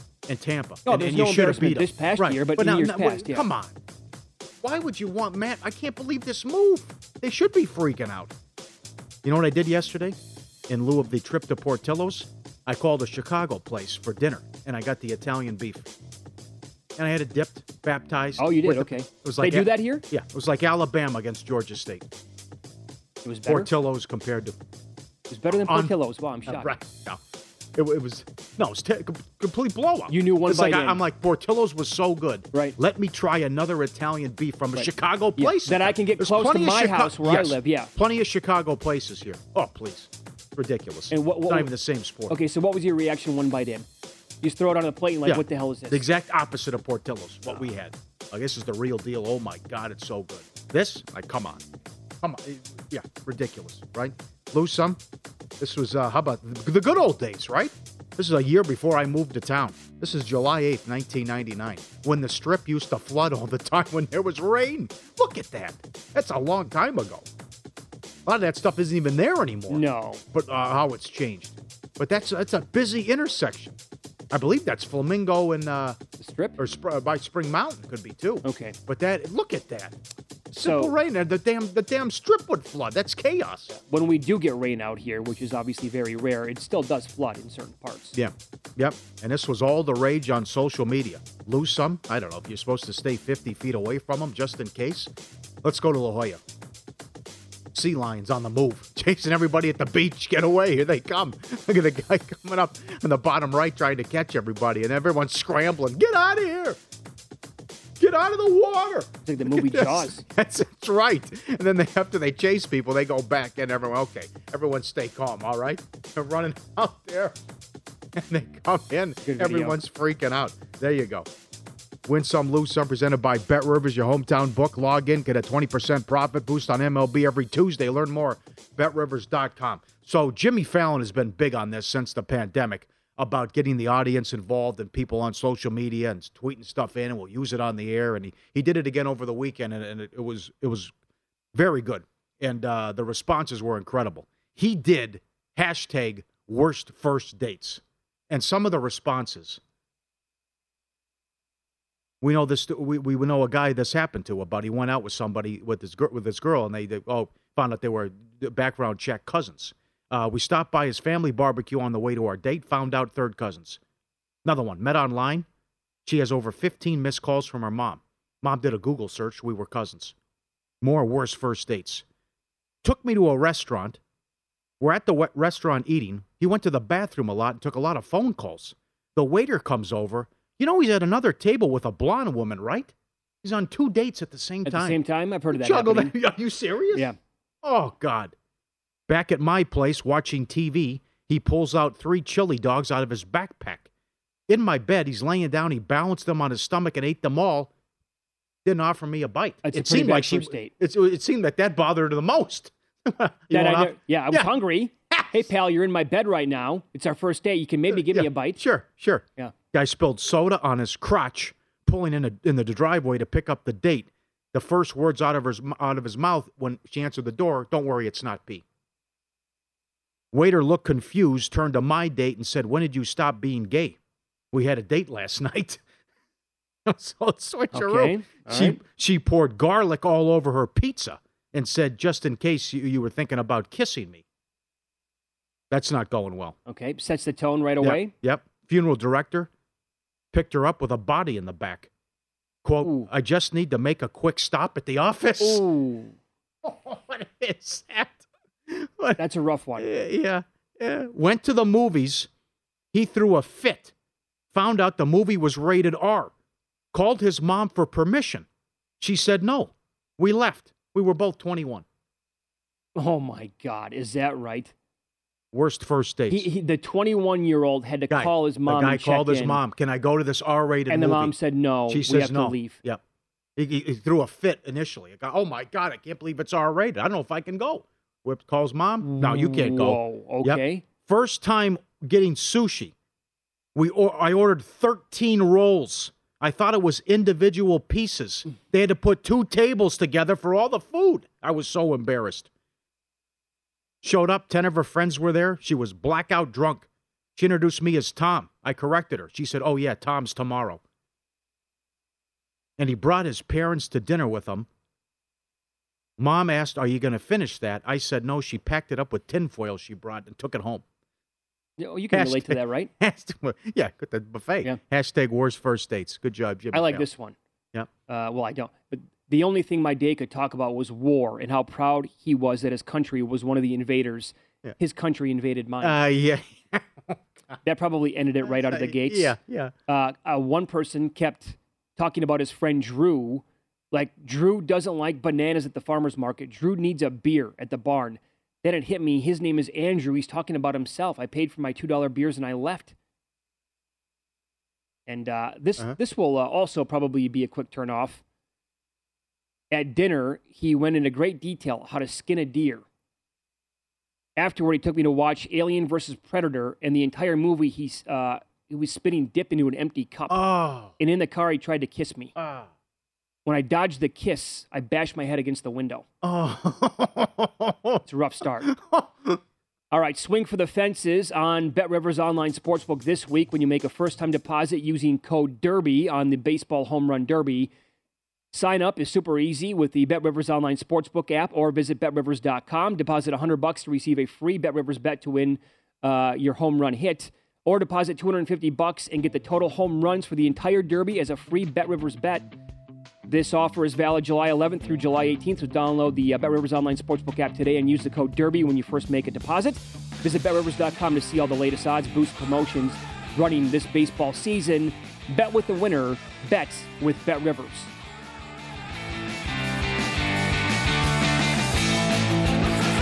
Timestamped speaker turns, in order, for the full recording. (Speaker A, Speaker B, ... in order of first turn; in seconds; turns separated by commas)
Speaker A: 0.3-3.8, Speaker B: 0.8-3.5, Speaker A: 4.6-8.3, Speaker A: 9.2-10.2, Speaker A: 10.7-15.9, Speaker A: 16.9-22.1, Speaker B: 18.4-20.0, Speaker B: 23.2-23.7, Speaker A: 23.5-24.6, Speaker B: 25.3-26.8, Speaker A: 25.5-27.2, Speaker A: 27.7-42.4, Speaker B: 30.1-31.0, Speaker B: 34.7-37.9, Speaker B: 41.1-41.7, Speaker B: 42.3-43.9, Speaker B: 44.4-46.0, Speaker A: 45.2-51.6, Speaker A: 52.2-55.0, Speaker A: 55.6-67.3, Speaker A: 68.2-73.8, Speaker B: 69.7-70.2, Speaker A: 74.3-76.0, Speaker B: 76.2-76.6, Speaker A: 76.6-80.0, Speaker B: 78.4-78.8, Speaker A: 80.5-83.7, Speaker B: 80.6-80.9, Speaker B: 83.7-88.1, Speaker A: 88.1-95.1, Speaker A: 95.6-96.4, Speaker A: 97.7-106.8, Speaker A: 108.0-117.4, Speaker B: 109.2-110.2, Speaker A: 118.2-121.3, Speaker B: 119.2-119.8, Speaker A: 122.0-140.9, Speaker A: 141.5-149.6, Speaker A: 152.2-163.8, Speaker A: 164.4-165.5, Speaker A: 166.1-170.1, Speaker A: 170.8-172.0, Speaker A: 172.8-174.0, Speaker A: 174.8-185.0, Speaker B: 184.6-186.1, Speaker A: 185.5-188.3, Speaker A: 189.1-193.9, Speaker A: 194.5-197.7, Speaker A: 198.6-204.5, Speaker B: 199.6-200.7, Speaker B: 203.5-208.6, Speaker A: 205.1-205.4, Speaker A: 207.9-218.6, Speaker A: 220.3-224.0, Speaker A: 224.5-225.8, Speaker A: 226.8-234.2, Speaker B: 227.7-228.8, Speaker A: 235.7-236.6, Speaker B: 236.7-238.1, Speaker A: 237.8-239.5, Speaker A: 240.3-241.9, Speaker A: 242.6-245.6, Speaker B: 242.8-243.1, Speaker B: 245.4-246.2, Speaker A: 246.6-249.2, Speaker B: 249.2-249.9, Speaker A: 249.8-252.3, Speaker A: 252.9-253.9, Speaker A: 254.5-256.3, Speaker A: 256.9-258.4, Speaker A: 259.0-261.8, Speaker B: 262.9-264.7, Speaker A: 265.5-266.5, Speaker B: 266.3-269.6, Speaker A: 268.1-271.3, Speaker B: 270.9-272.8, Speaker A: 271.9-273.0, Speaker A: 273.6-282.9, Speaker B: 279.0-280.8, Speaker A: 283.7-292.5, Speaker A: 294.0-300.8, Speaker A: 302.8-304.7, Speaker A: 306.2-310.8, Speaker B: 311.8-312.9, Speaker A: 312.1-317.1, Speaker B: 316.7-317.4, Speaker B: 318.1-326.0, Speaker A: 325.8-327.6, Speaker B: 327.6-329.3, Speaker A: 328.4-329.7, Speaker B: 329.9-342.9, Speaker B: 345.1-348.2, Speaker B: 349.7-352.8, Speaker B: 354.4-360.4, Speaker A: 360.3-360.9, Speaker B: 361.0-362.3, Speaker A: 362.4-362.7, Speaker B: 363.4-366.1, Speaker A: 366.2-368.0, Speaker B: 368.1-368.7, Speaker A: 368.6-369.4, Speaker B: 369.9-377.7, Speaker B: 378.5-392.5, Speaker B: 393.3-407.9